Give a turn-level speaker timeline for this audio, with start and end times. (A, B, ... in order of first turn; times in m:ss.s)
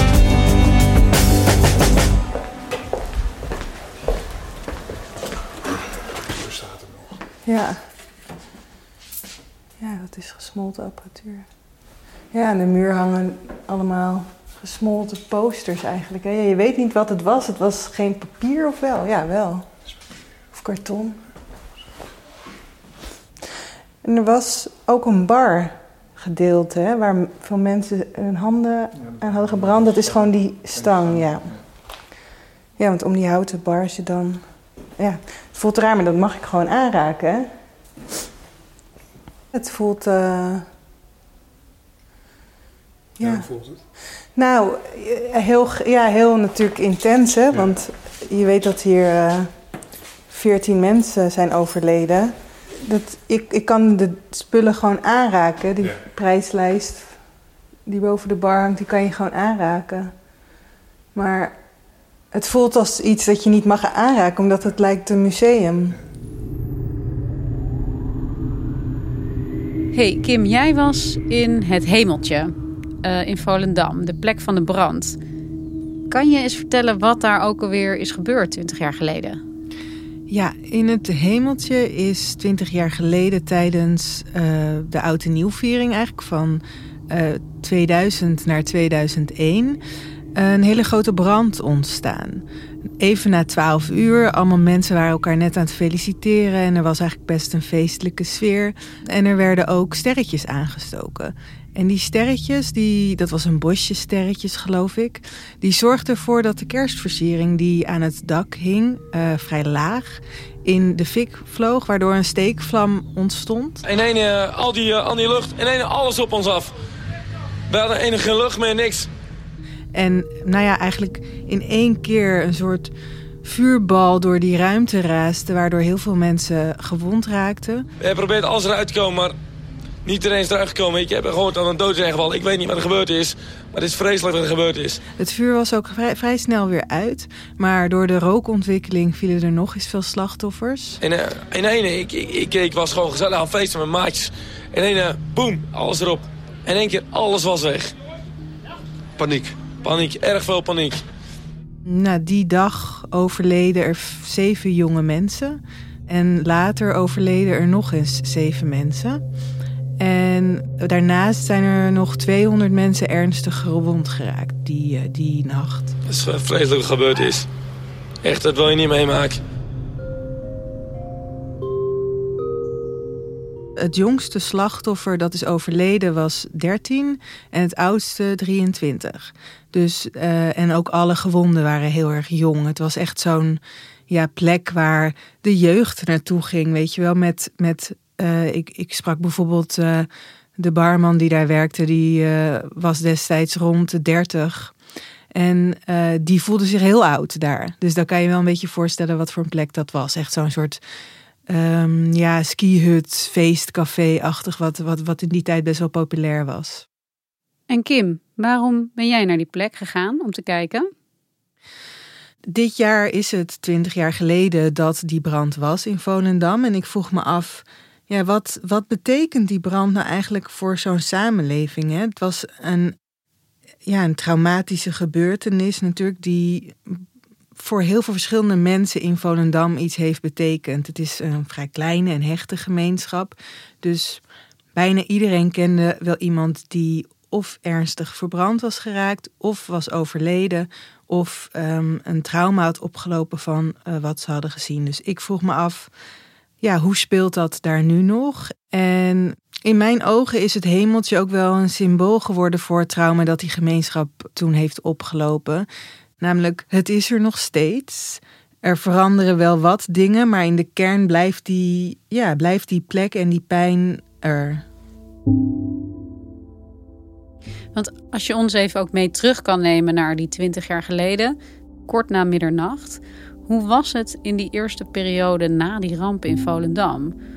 0:07.4-0:07.8 A
0:09.8-0:11.5 A
0:12.3-0:19.7 A
0:20.5-0:21.2 A
0:24.0-0:31.6 A
0:32.8-0:37.5 A
0:39.5-0:40.7 A
0:43.2-0:43.5 A
0:44.4-0:49.5 A
0:50.3-0:57.2 A
0:57.9-1:00.1 A
1:01.2-1:01.6 A
1:02.3-1:06.0 A
1:09.9-1:15.2 B
1:16.1-1:19.4 B
1:20.3-1:29.8 A
1:30.4-1:32.4 A
1:33.0-1:53.8 A
1:53.9-1:56.7 C
1:57.7-1:59.1 C
2:00.0-2:02.9 A
2:03.4-2:07.9 A
2:08.0-2:09.4 C
2:10.0-2:15.0 C
2:15.2-2:21.0 A
2:21.0-2:27.9 C
2:29.2-2:31.0 C
2:31.9-2:39.2 A
2:40.0-2:45.9 A
2:46.1-2:47.5 C
2:48.2-2:49.4 C
2:53.8-3:14.8 A
3:15.3-3:20.8 A
3:21.5-3:26.8 A
3:27.7-3:30.9 B
3:32.5-3:42.9 A
3:43.9-3:47.0 A
3:47.6-3:54.2 A
3:54.8-4:05.9 A
4:06.6-4:15.7 A
4:16.2-4:24.6 A
4:27.7-4:31.4 B
4:31.9-4:37.1 B